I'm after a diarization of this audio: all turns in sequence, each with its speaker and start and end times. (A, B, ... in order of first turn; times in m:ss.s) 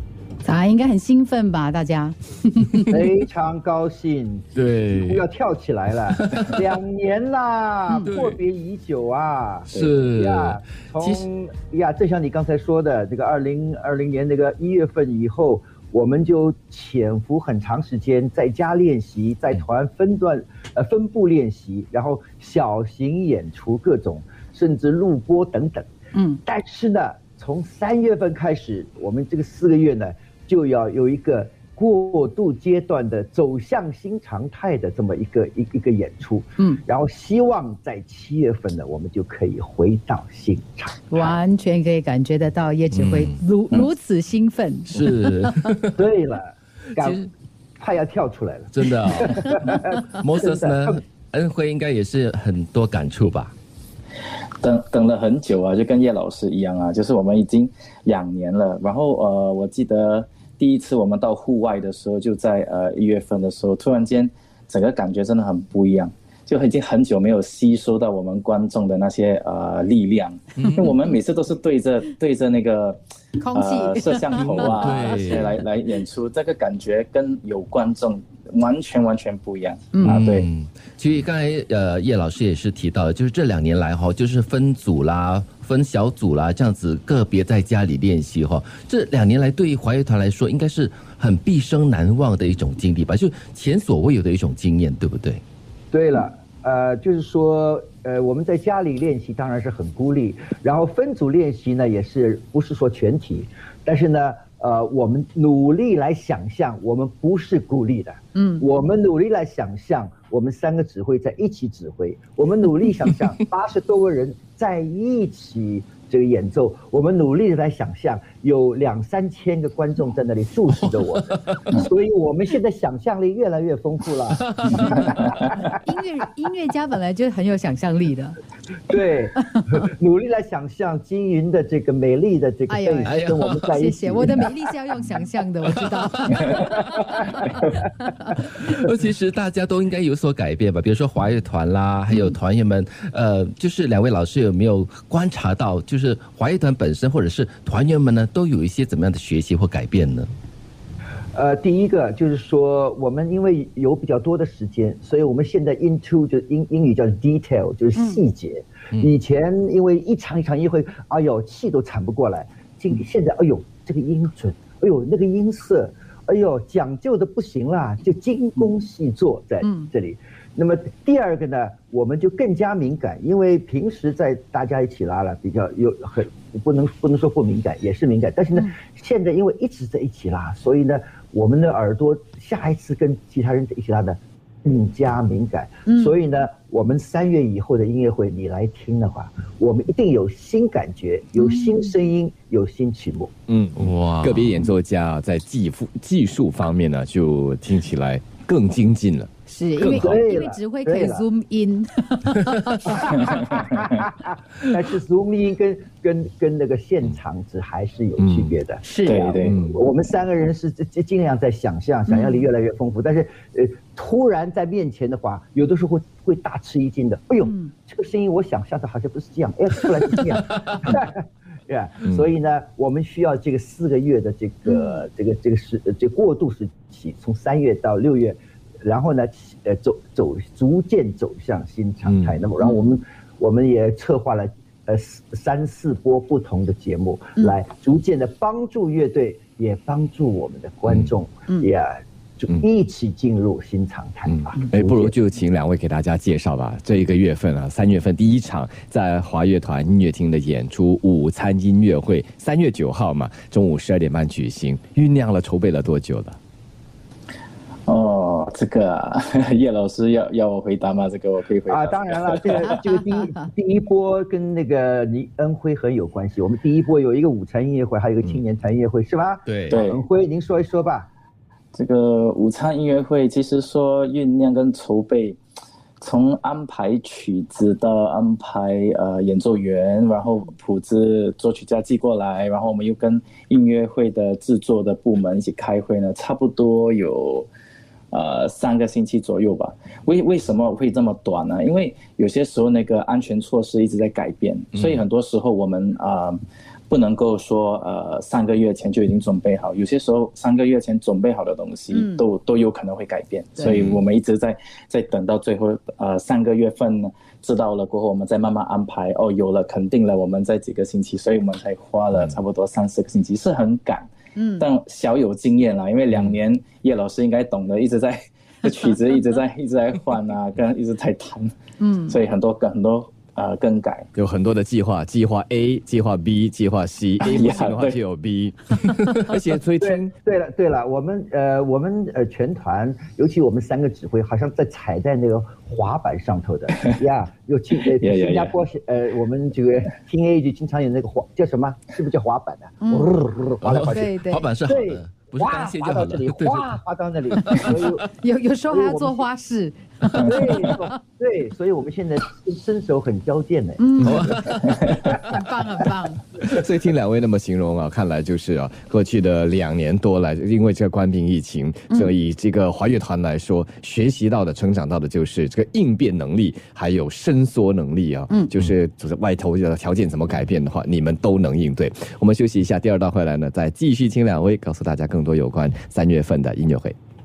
0:00.4-0:03.0 A
0:02.8-0:25.9 B
0:04.5-0:05.2 C
0:06.2-0:06.5 C
0:08.1-0:08.3 C
0:09.7-0:11.2 C
0:26.1-0:26.4 A
0:26.4-0:41.4 B
0:41.1-0:45.7 A
0:42.9-0:43.4 C
0:44.9-0:46.0 C
0:46.0-0:47.2 B
0:46.9-0:47.3 C
0:47.8-0:51.0 B
0:48.7-0:53.5 C
0:54.6-1:13.0 D
1:10.6-1:10.8 C
1:13.4-1:15.4 A
1:13.5-1:20.5 D
1:14.6-1:15.5 C
1:19.9-1:20.2 A
1:20.0-1:35.4 C
1:35.9-2:05.5 B
1:48.3-1:48.6 A
2:04.5-2:04.8 C
2:05.6-2:08.4 A
2:08.9-2:14.5 B
2:09.4-2:09.8 A
2:12.7-2:18.4 A
2:13.0-2:13.6 C
2:15.8-2:16.6 C
2:18.3-2:30.3 C
2:31.3-3:13.3 B
2:49.6-2:49.9 A
3:05.8-3:06.2 A
3:11.4-3:11.9 A
3:13.5-3:20.2 E
3:13.8-3:14.7 C
3:19.5-3:23.8 A
3:19.8-3:21.2 B
3:22.8-4:05.1 B
3:28.2-3:28.5 E
3:29.0-3:29.6 D
3:29.4-3:29.8 E
3:32.1-3:32.4 A
3:37.4-3:37.7 A
3:44.6-3:45.0 A
3:52.1-3:52.3 E
3:52.6-3:53.0 A
4:04.3-4:16.4 E
4:17.9-4:22.7 D
4:21.7-4:31.1 B
4:22.7-4:23.4 A
4:29.4-4:29.8 C
4:29.7-4:30.0 D
4:31.7-4:35.4 D
4:36.0-4:47.5 D
4:48.1-5:24.1 D
5:01.9-5:02.2 A
5:14.4-5:14.6 A
5:21.8-5:22.2 A
5:24.1-5:30.1 E
5:27.2-5:28.0 D
5:29.8-5:48.1 B
5:38.0-5:38.6 D
5:42.8-5:43.1 A
5:43.6-5:46.7 C
5:43.8-5:44.4 A
5:47.6-5:50.9 A
5:48.7-5:49.2 B
5:50.2-5:54.4 B
5:53.8-5:56.3 A
5:54.0-5:54.7 C
5:56.4-6:17.0 E